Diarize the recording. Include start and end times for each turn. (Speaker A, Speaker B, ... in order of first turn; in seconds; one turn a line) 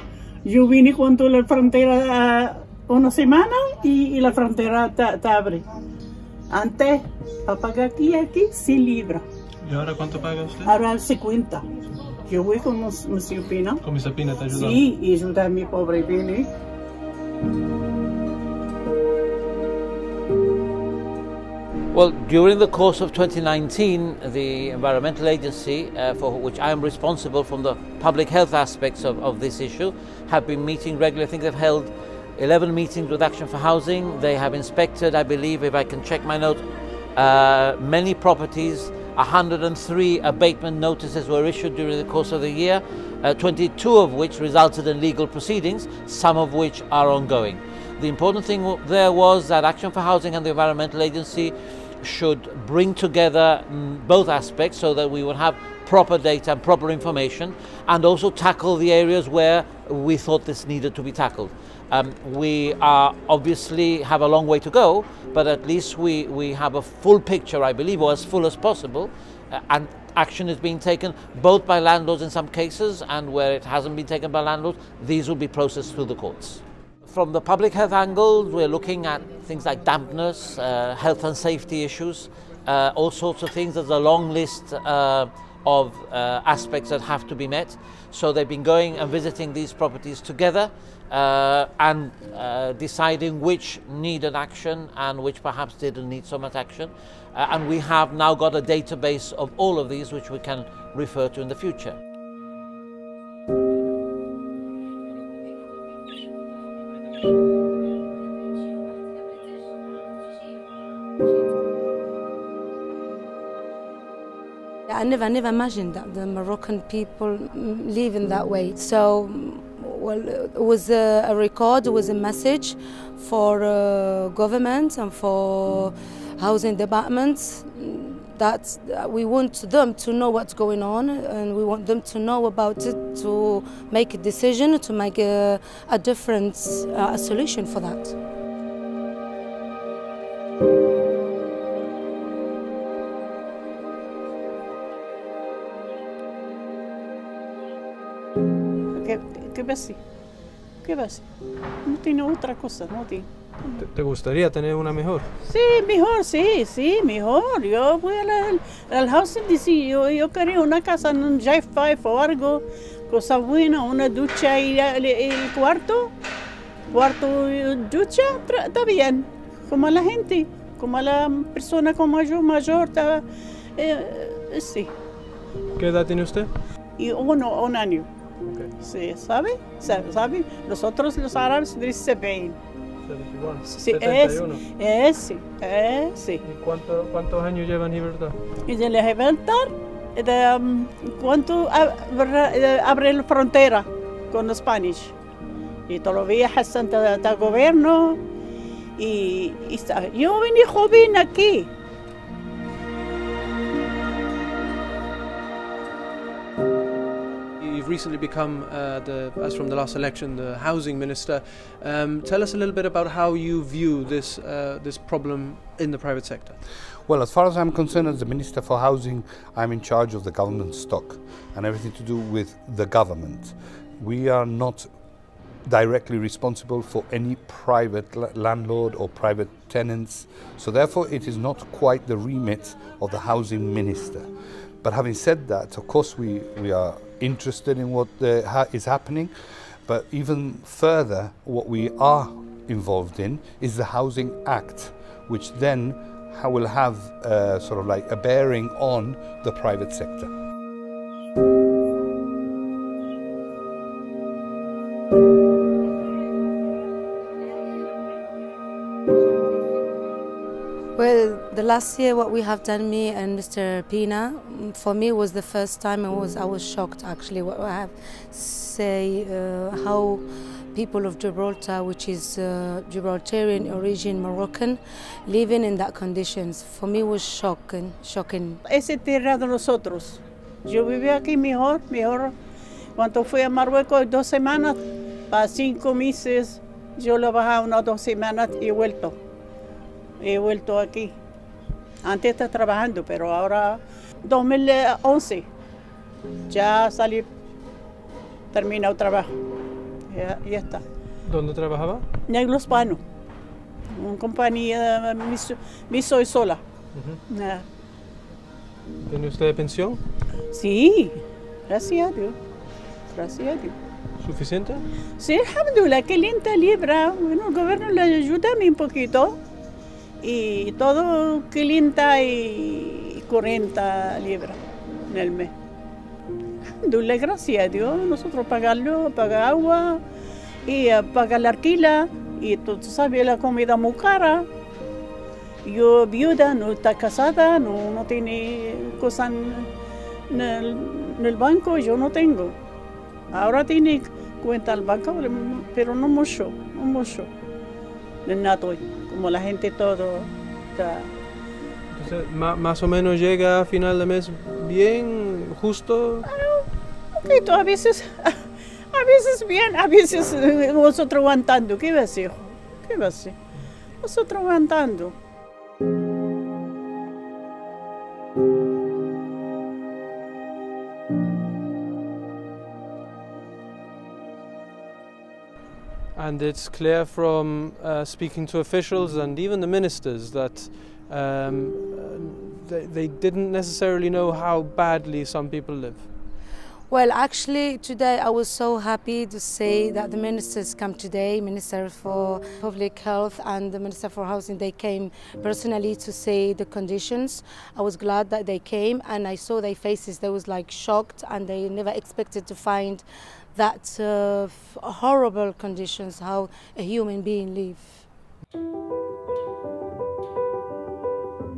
Speaker A: 0.5-5.6
Speaker A: 6.5-9.2
Speaker B: 9.6-10.7
Speaker A: 10.7-11.7
Speaker A: 12.3-13.8
Speaker B: 13.8-14.8
Speaker A: 14.5-16.5
Speaker C: 21.9-36.6
Speaker C: 37.1-102.0
Speaker D: 114.9-138.2
Speaker A: 148.9-150.0
Speaker A: 150.8-151.3
Speaker A: 151.8-153.8
Speaker B: 153.8-155.3
Speaker A: 155.4-166.1
Speaker A: 166.9-173.2
Speaker A: 173.8-174.9
Speaker B: 175.8-176.5
Speaker A: 177.0-178.1
Speaker A: 178.8-182.6
Speaker B: 183.1-184.6
Speaker A: 183.7-186.4
Speaker B: 186.4-188.4
Speaker A: 188.7-195.2
Speaker A: 195.9-198.2
Speaker A: 199.0-201.7
Speaker B: 207.6-216.6
Speaker E: 217.1-224.9
Speaker E: 225.7-234.3
Speaker E: 234.8-239.3
Speaker E: 239.9-250.3
Speaker D: 261.0-278.6
Speaker A: 278.7-282.3
Speaker A: 283.0-289.2
Speaker A: 290.2-291.1
Speaker A: 292.0-295.5
Speaker A: 296.5-297.3
Speaker A: 298.5-299.4
Speaker A: 300.1-300.8
Speaker B: 301.2-302.0
Speaker A: 302.3-303.0
Speaker A: 303.9-306.6
Speaker A: 307.3-307.7
Speaker B: 309.0-310.0
Speaker A: 310.5-312.4
Speaker A: 313.1-313.8
Speaker B: 314.2-314.9
Speaker A: 315.2-319.4
Speaker A: 320.2-325.5
Speaker A: 326.8-330.0
Speaker A: 330.7-334.5
Speaker A: 335.6-339.7
Speaker A: 340.3-342.6
Speaker A: 343.3-347.3
Speaker A: 348.3-351.1
Speaker B: 351.9-356.3
Speaker A: 356.2-363.4
Speaker A: 364.0-365.1
Speaker B: 376.1-386.1
Speaker D: 386.9-403.0
Speaker D: 403.6-408.0